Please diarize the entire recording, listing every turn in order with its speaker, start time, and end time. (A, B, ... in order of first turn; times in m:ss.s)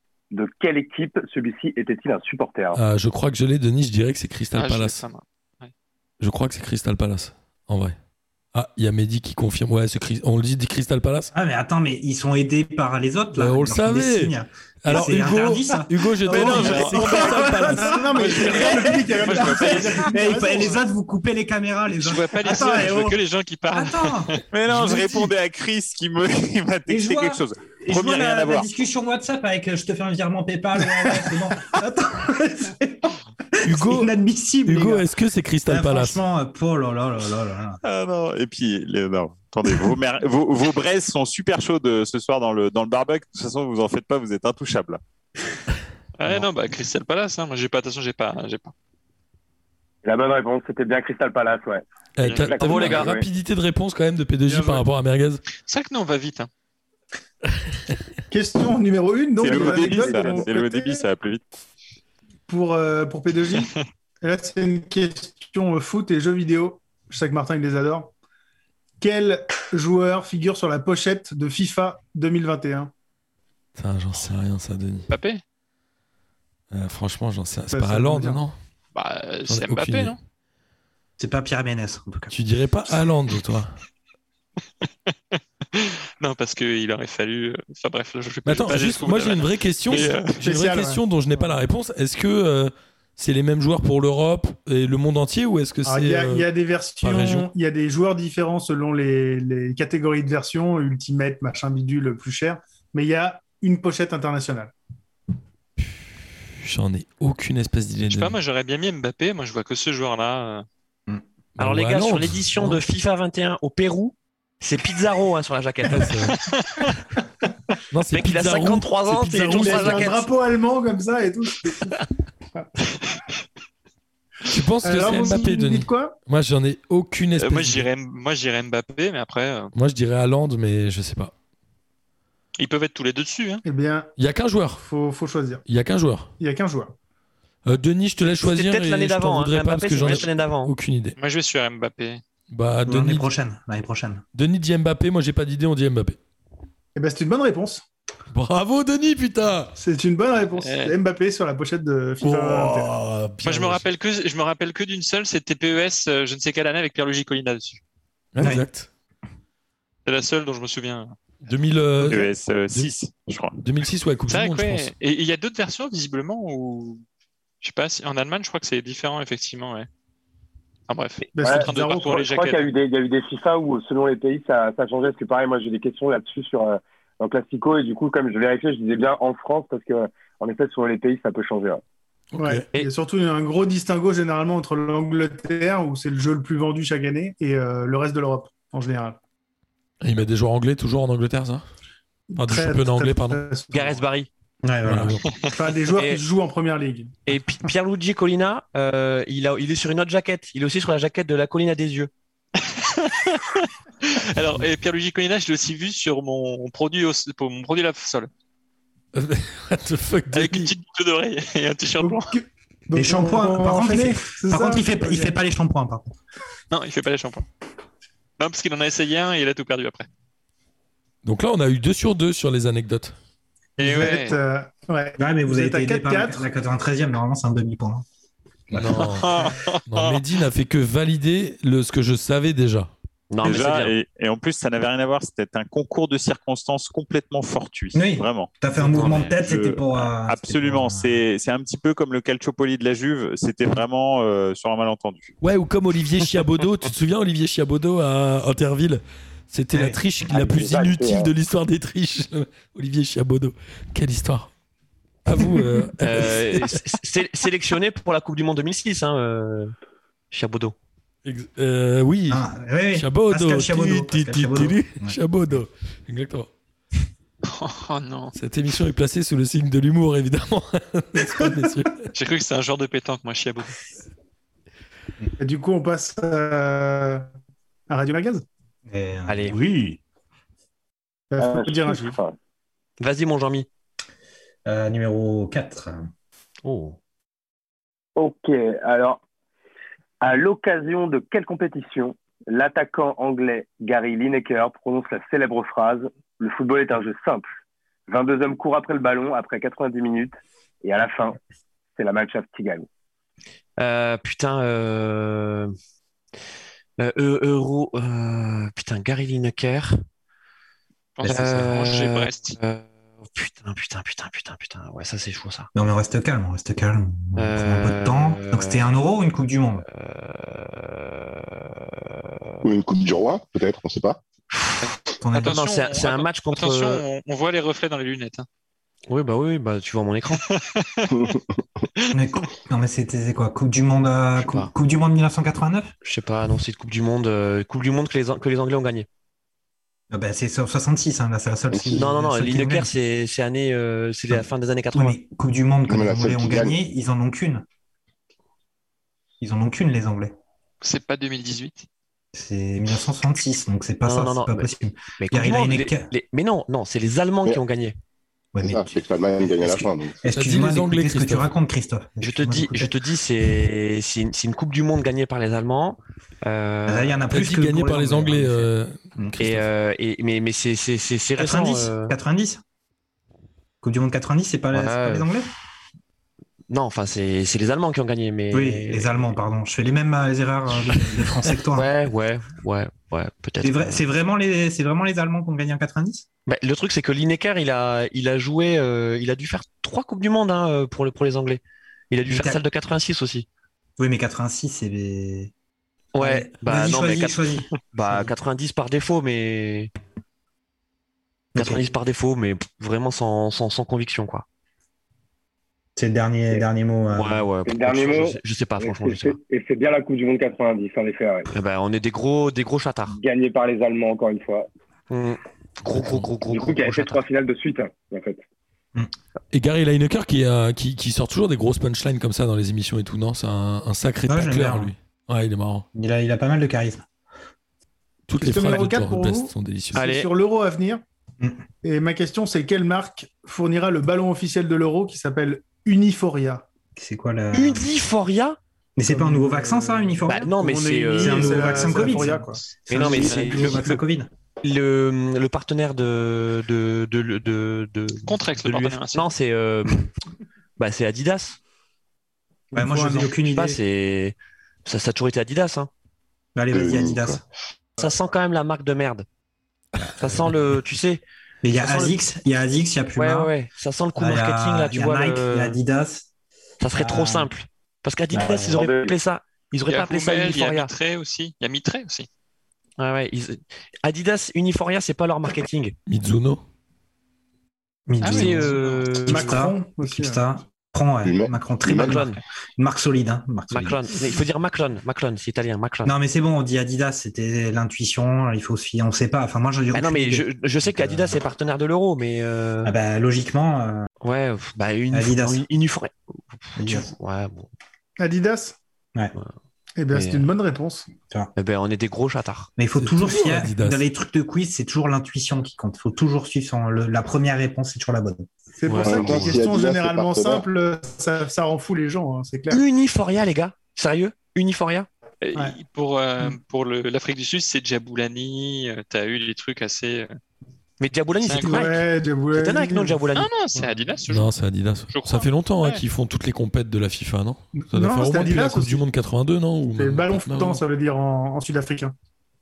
0:00.3-0:02.8 A
0:02.7-0:05.0 B
0:04.5-0:05.7 C
0:06.2-0:08.0 B
0:08.5-0:11.3 B
0:11.3-0:25.3 D
0:13.3-0:18.3 B
0:16.3-0:20.8 E
0:16.3-0:20.2 C
0:22.0-0:24.4 C
0:24.5-0:28.7 F
0:26.9-0:35.0 D
0:33.6-0:34.1 B
0:34.6-0:36.2 B
0:35.7-0:37.8 D
0:37.8-0:45.0 F
0:46.2-0:48.7 C
0:50.0-0:53.3 A
0:52.2-0:55.4 B
0:52.2-0:52.6 C
0:52.6-0:53.1 G
0:54.4-0:54.8 E
0:55.6-0:56.5 C
0:58.3-1:01.0 E
0:59.4-1:01.6 F
0:59.4-1:00.5 A
1:02.5-1:08.1 E
1:09.0-1:12.9 E
1:13.8-1:15.1 B
1:15.1-1:15.4 C
1:16.7-1:18.6 B
1:17.7-1:18.4 E
1:18.9-1:20.2 C
1:19.5-1:20.1 B
1:21.2-1:22.3 D
1:22.3-1:23.7 B
1:25.7-1:30.4 C
1:28.4-1:36.4 B
1:30.4-1:31.0 E
1:35.8-1:44.7 E
1:37.0-1:37.5 B
1:45.8-1:48.4 B
1:48.0-1:50.6 C
1:51.6-1:52.8 B
1:51.6-1:56.1 G
1:55.9-1:56.4 B
1:56.4-1:56.9 C
1:57.9-2:00.1 B
1:58.1-2:00.3 G
1:59.2-2:02.0 E
2:04.5-2:07.9 B
2:04.8-2:06.1 E
2:07.4-2:09.7 C
2:09.7-2:11.3 B
2:12.6-2:13.6 C
2:13.6-2:14.1 E
2:14.2-2:14.8 B
2:14.8-2:15.6 E
2:15.6-2:16.3 B
2:16.4-2:16.9 E
2:17.6-2:21.1 B
2:18.4-2:20.7 G
2:20.0-2:20.2 C
2:21.2-2:22.2 C
2:22.5-2:23.3 B
2:22.8-2:24.2 D
2:24.3-2:26.2 B
2:27.0-2:27.8 E
2:28.3-2:29.7 B
2:29.8-2:32.9 E
2:30.6-2:31.0 C
2:32.2-2:33.8 B
2:33.4-2:37.8 C
2:38.3-2:38.9 B
2:38.4-2:38.6 D
2:40.0-2:41.1 C
2:41.4-2:42.9 B
2:42.1-2:43.6 F
2:43.6-2:44.9 B
2:44.3-2:47.0 C
2:47.6-2:49.9 C
2:50.9-2:52.7 C
2:51.3-2:52.2 E
2:51.4-3:01.8 A
3:02.3-3:02.7 B
3:02.4-3:09.2 E
3:10.0-3:11.6 B
3:12.3-3:14.0 E
3:12.4-3:13.4 B
3:13.7-3:14.3 G
3:14.6-3:15.2 D
3:14.8-3:15.3 B
3:15.4-3:17.2 E
3:15.9-3:16.2 G
3:17.2-3:22.1 G
3:22.6-3:28.3 C
3:29.1-3:30.7 B
3:30.3-3:32.4 C
3:32.0-3:35.3 E
3:32.9-3:36.1 D
3:36.7-3:37.4 C
3:38.4-3:40.1 C
3:41.2-3:43.1 B
3:43.8-3:46.5 E
3:43.8-3:44.4 C
3:45.2-3:48.0 D
3:48.7-3:49.1 D
3:48.7-3:52.9 B
3:48.9-3:50.2 C
3:53.3-3:54.0 G
3:53.4-4:05.3 F
3:57.9-4:01.2 D
3:58.8-3:59.4 G
4:05.4-4:14.5 B
4:09.7-4:10.0 D
4:10.2-4:11.3 A
4:15.2-4:16.8 B
4:16.0-4:19.7 G
4:20.3-4:20.7 G
4:21.2-4:26.5 B
4:22.3-4:25.2 D
4:27.4-4:28.3 C
4:28.3-4:32.1 B
4:32.1-4:33.8 C
4:35.4-4:37.2 E
4:37.9-4:38.4 E
4:38.8-4:39.8 D
4:39.3-4:39.6 G
4:41.3-4:42.2 E
4:41.4-4:42.3 A
4:43.0-4:43.7 G
4:44.6-4:46.1 D
4:46.6-4:47.0 G
4:48.2-4:49.2 A
4:50.2-4:57.5 A
4:58.1-5:01.4 A
5:02.0-5:02.9 A
5:03.8-5:05.7 G
5:07.0-5:10.0 G
5:11.2-5:12.6 C
5:11.2-5:15.7 G
5:15.7-5:19.8 D
5:17.4-5:18.9 G
5:19.9-5:22.3 G
5:22.6-5:24.2 H
5:24.5-5:27.0 G
5:25.2-5:25.6 D
5:25.3-5:28.4 C
5:29.1-5:30.4 G
5:30.4-5:31.3 C
5:32.1-5:35.9 D
5:34.4-5:34.7 G
5:36.0-5:39.1 G
5:40.1-5:42.9 D
5:41.7-5:42.0 H
5:41.9-5:45.2 G
5:44.9-5:47.6 D
5:45.9-5:46.8 H
5:49.4-5:50.3 D
5:50.8-5:51.8 C
5:52.3-5:56.1 D
5:54.0-5:58.0 G
5:58.5-5:58.9 D
5:58.6-6:00.2 H
6:00.2-6:02.9 D
6:00.3-6:01.5 B
6:02.2-6:07.2 G
6:06.9-6:09.5 D
6:07.3-6:09.0 B
6:09.4-6:12.1 G
6:11.4-6:12.6 D
6:13.8-6:15.5 D
6:14.7-6:15.3 G
6:16.7-6:19.3 G
6:18.5-6:21.9 D
6:21.7-6:24.0 G
6:23.6-6:26.2 D
6:26.5-6:33.5 G
6:32.2-6:32.6 D
6:34.0-6:35.5 D
6:36.1-6:39.9 G
6:36.2-6:38.3 D
6:41.5-6:41.8 D
6:41.6-6:44.4 G
6:46.0-6:47.4 D
6:47.1-6:49.4 G
6:47.6-6:51.5 A
6:51.5-6:53.2 G
6:53.1-6:54.7 A
6:55.1-6:57.2 G
6:56.5-6:58.4 A
6:59.5-7:05.8 B
7:04.3-7:04.9 D
7:05.9-7:07.0 D
7:08.3-7:10.0 B
7:08.4-7:11.0 E
7:09.9-7:10.3 G
7:11.8-7:16.6 E
7:17.0-7:17.9 D
7:17.5-7:18.6 G
7:19.0-7:20.6 D
7:19.0-7:23.9 E
7:20.2-7:22.2 G
7:21.1-7:24.3 D
7:22.9-7:24.0 G
7:24.6-7:30.1 G
7:28.2-7:29.3 C
7:30.8-7:31.6 G
7:32.7-7:33.4 E
7:32.7-7:33.8 D
7:33.4-7:35.9 G
7:36.5-7:37.4 D
7:36.7-7:37.4 H
7:38.0-7:39.2 G
7:40.2-7:41.2 G
7:41.6-7:43.5 D
7:41.8-7:42.2 G
7:43.2-7:45.8 G
7:44.2-7:46.3 D
7:46.8-7:50.9 G
7:46.9-7:47.5 D
7:48.3-7:48.9 D
7:48.7-7:49.1 A
7:49.9-7:52.3 C
7:53.0-7:55.9 G
7:56.1-7:56.6 B
7:58.1-8:04.0 D
7:58.2-7:59.0 C
7:58.2-7:59.6 G
7:59.2-8:00.4 E
8:01.2-8:02.2 H
8:01.9-8:02.4 G
8:03.7-8:06.1 G
8:06.0-8:11.4 D
8:09.9-8:12.9 G
8:12.8-8:14.1 D
8:14.2-8:17.7 G
8:15.1-8:15.6 D
8:16.8-8:17.1 D
8:18.2-8:18.8 E
8:20.0-8:21.1 E
8:20.1-8:20.5 G
8:21.6-8:22.7 G
8:22.8-8:28.5 D
8:23.0-8:24.0 B
8:28.8-8:32.8 E
8:28.9-8:29.6 G
8:29.0-8:30.6 H
8:29.0-8:29.6 D
8:32.7-8:35.1 G
8:35.4-8:40.4 C
8:41.0-8:43.5 G
8:41.4-8:41.9 C
8:41.6-8:43.2 E
8:43.4-8:44.5 C
8:44.3-8:50.8 B
8:45.1-8:46.0 C
8:47.7-8:49.0 E
8:49.9-8:52.1 E